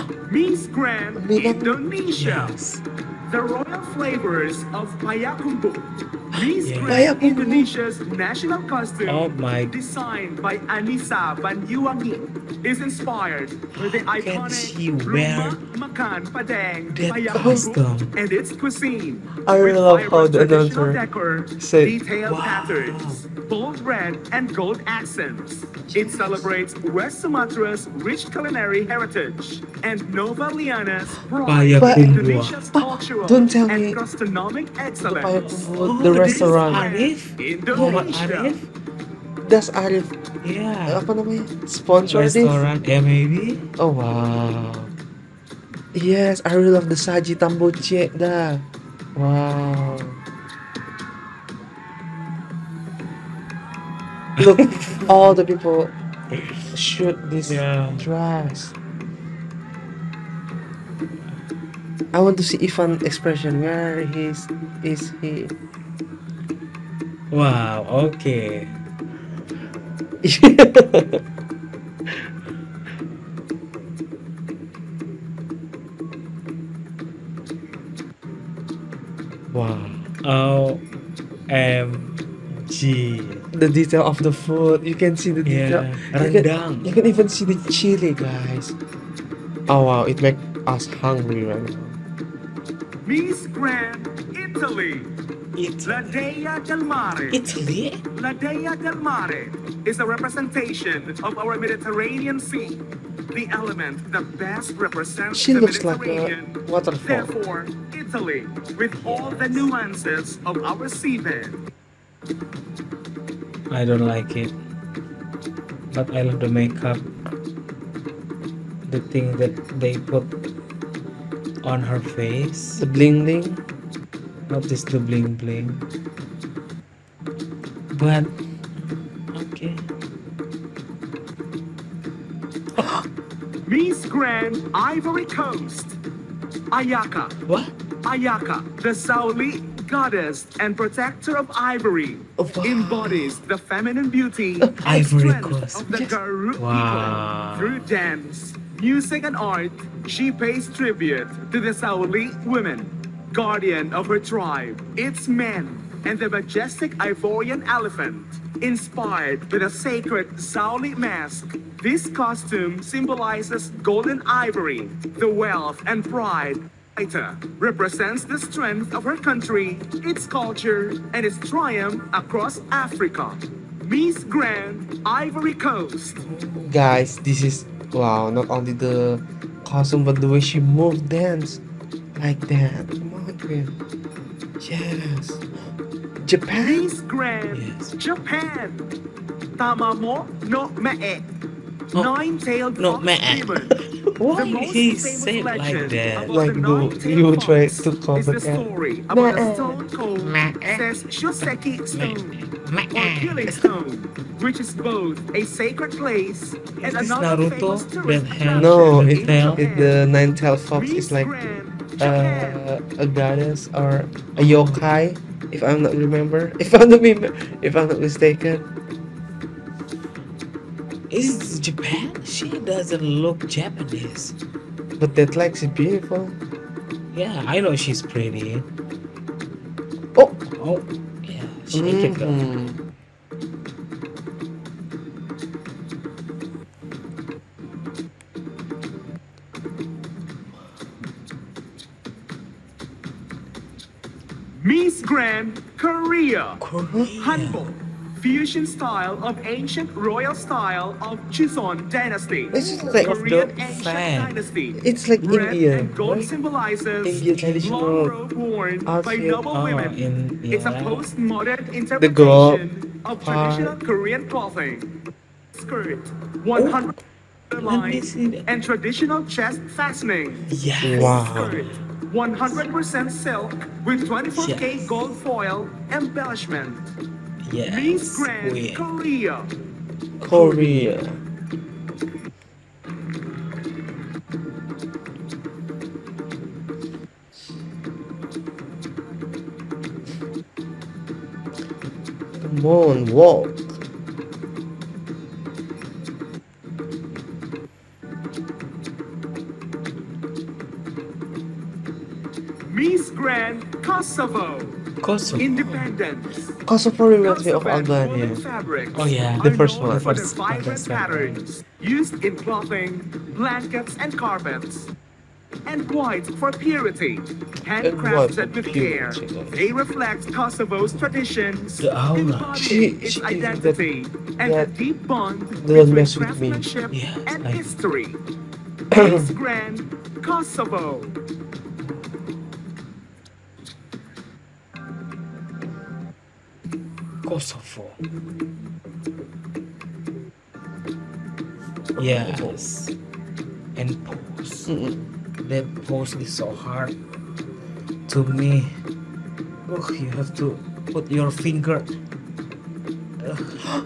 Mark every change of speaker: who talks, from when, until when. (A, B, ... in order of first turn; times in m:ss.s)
0:00.3-0:02.6 A
0:01.2-0:01.8 B
0:02.2-0:02.8 C
0:03.3-0:38.6 A
0:06.4-0:07.1 C
0:06.9-0:07.7 B
0:09.1-0:09.8 C
0:13.8-0:15.6 C
0:16.9-0:18.2 C
0:17.3-0:17.6 B
0:19.4-0:21.0 B
0:21.6-0:22.0 B
0:22.2-0:23.2 C
0:25.9-0:26.4 B
0:31.5-0:32.6 C
0:31.8-0:34.0 B
0:35.0-0:36.9 B
0:35.4-0:38.7 C
0:37.7-0:38.3 B
0:39.4-0:40.2 B
0:40.4-0:41.0 C
0:40.9-0:42.6 B
0:42.1-0:43.7 C
0:43.8-0:44.9 B
0:45.9-0:50.2 B
0:54.4-0:55.1 C
0:54.4-0:55.9 B
0:56.7-0:58.7 B
0:57.5-0:58.1 C
1:02.1-1:05.5 B
1:07.3-1:08.8 C
1:10.2-1:11.2 B
1:19.5-1:20.1 B
1:20.2-1:20.8 C
1:21.5-1:23.5 C
1:23.5-1:28.8 B
1:25.4-1:26.9 C
1:29.7-1:32.0 B
1:33.0-1:35.1 A
1:35.6-1:36.3 C
1:35.8-1:37.4 A
1:37.3-1:38.0 C
1:38.1-1:51.6 A
1:45.3-1:47.3 B
1:48.9-1:49.7 C
1:53.7-1:54.5 C
1:55.9-1:57.1 C
1:58.9-2:00.4 C
2:01.6-2:02.8 C
2:02.8-2:03.6 B
2:04.5-2:05.9 C
2:07.9-2:09.9 C
2:12.8-2:13.0 C
2:13.6-2:16.0 A
2:16.7-2:17.4 A
2:17.5-2:17.7 C
2:18.0-2:56.2 A
2:22.4-2:23.4 B
2:24.6-2:24.9 B
2:24.8-2:26.0 C
2:26.6-2:27.9 C
2:56.2-2:57.1 C
2:56.6-3:01.6 B
3:02.2-3:03.8 B
3:04.6-3:05.4 B
3:06.2-3:06.9 B
3:06.6-3:09.0 A
3:07.5-3:08.0 C
3:09.6-3:11.3 A
3:12.0-3:13.8 A
3:12.8-3:16.4 C
3:14.3-3:22.4 A
3:16.3-3:19.8 B
3:20.2-3:20.9 C
3:21.9-3:23.6 C
3:22.9-3:30.0 A
3:26.8-3:29.7 C
3:28.5-3:31.3 B
3:30.7-3:32.6 A
3:32.0-3:38.7 B
3:34.4-3:35.0 C
3:41.1-3:44.4 C
3:45.0-3:46.4 B
3:47.1-3:48.7 C
3:50.2-3:50.5 B
3:50.6-3:52.4 C
3:51.7-3:52.8 B
4:04.6-4:06.6 A
4:06.6-4:07.7 C
4:07.2-4:25.0 A
4:12.5-4:13.3 B
4:12.6-4:14.4 C
4:14.8-4:16.3 B
4:17.0-4:18.1 B
4:17.0-4:18.1 C
4:18.9-4:19.5 B
4:19.5-4:21.1 C
4:22.0-4:22.6 B
4:23.2-4:23.8 B
4:25.5-4:27.0 A
4:26.6-4:26.9 C
4:27.5-4:36.9 A
4:27.6-4:28.5 C
4:30.5-4:31.8 C
4:30.8-4:31.7 B
4:34.4-4:35.0 C
4:37.4-4:38.9 C
4:37.6-4:39.5 A
4:40.2-4:41.2 B
4:40.3-4:41.0 C
4:52.4-4:53.8 B
5:02.7-5:06.6 A
5:05.0-5:05.5 C
5:05.3-5:05.9 B
5:06.6-5:08.4 B
5:07.2-5:14.9 A
5:08.1-5:08.4 C
5:08.9-5:11.4 C
5:09.4-5:10.1 B
5:15.7-5:28.2 A
5:17.8-5:19.7 B
5:21.8-5:22.8 C
5:22.6-5:23.8 B
5:24.4-5:24.7 B
5:25.5-5:26.7 B
5:26.9-5:27.7 C
5:28.9-5:29.3 B
5:28.9-5:31.2 A
5:37.2-5:38.0 C
5:42.0-5:42.6 B
5:42.0-5:42.9 C
5:43.8-5:44.7 C
5:44.7-5:45.1 B
5:45.4-5:47.0 C
5:48.1-5:48.7 C
5:49.7-5:51.9 C
5:53.2-5:53.6 C